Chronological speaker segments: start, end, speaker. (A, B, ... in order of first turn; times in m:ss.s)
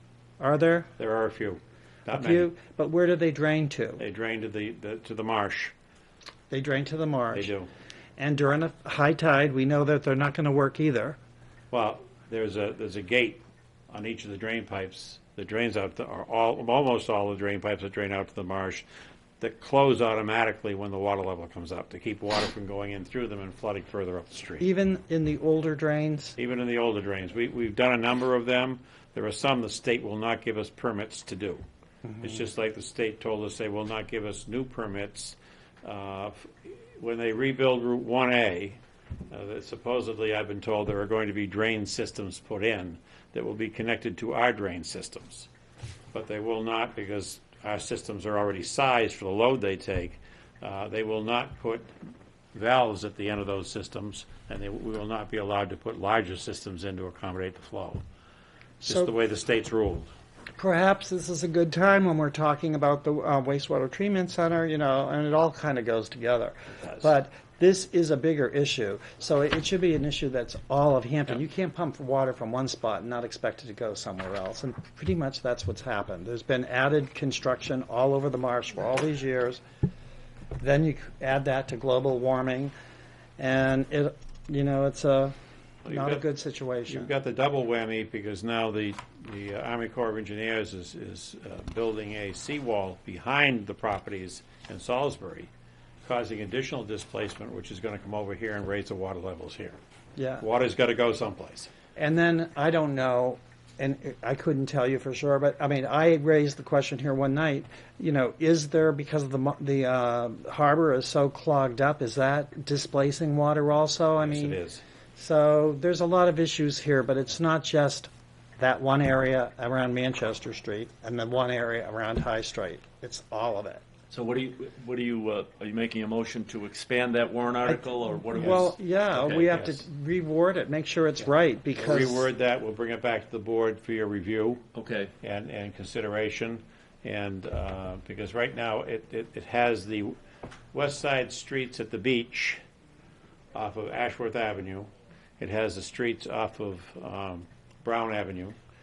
0:00.4-0:00.9 A
0:01.0-0:02.5 B
0:02.1-0:04.0 A
0:04.0-0:05.7 B
0:06.5-0:07.5 A
0:07.3-0:07.7 B
0:08.2-0:11.2 A
0:11.7-0:18.8 B
0:19.4-0:24.6 B
0:24.6-0:26.4 A
0:26.4-0:31.6 B
0:32.2-0:45.5 B
0:46.1-0:51.9 B
0:52.5-0:58.0 B
0:58.8-1:00.1 B
0:58.8-0:59.1 A
1:00.6-1:19.6 A
1:06.8-1:07.1 B
1:20.6-1:22.7 A
1:23.4-1:27.1 A
1:25.9-1:26.2 B
1:26.9-1:35.5 B
1:36.0-1:39.8 B
1:40.2-1:40.5 A
1:40.4-1:41.7 B
1:42.0-1:54.6 A
1:54.2-1:54.8 B
1:55.2-2:03.8 A
2:04.1-2:09.5 C
2:07.6-2:12.3 A
2:08.4-2:08.7 B
2:11.8-2:14.6 B
2:14.8-2:15.1 C
2:15.2-2:20.2 B
2:20.7-2:22.6 B
2:23.5-2:28.6 B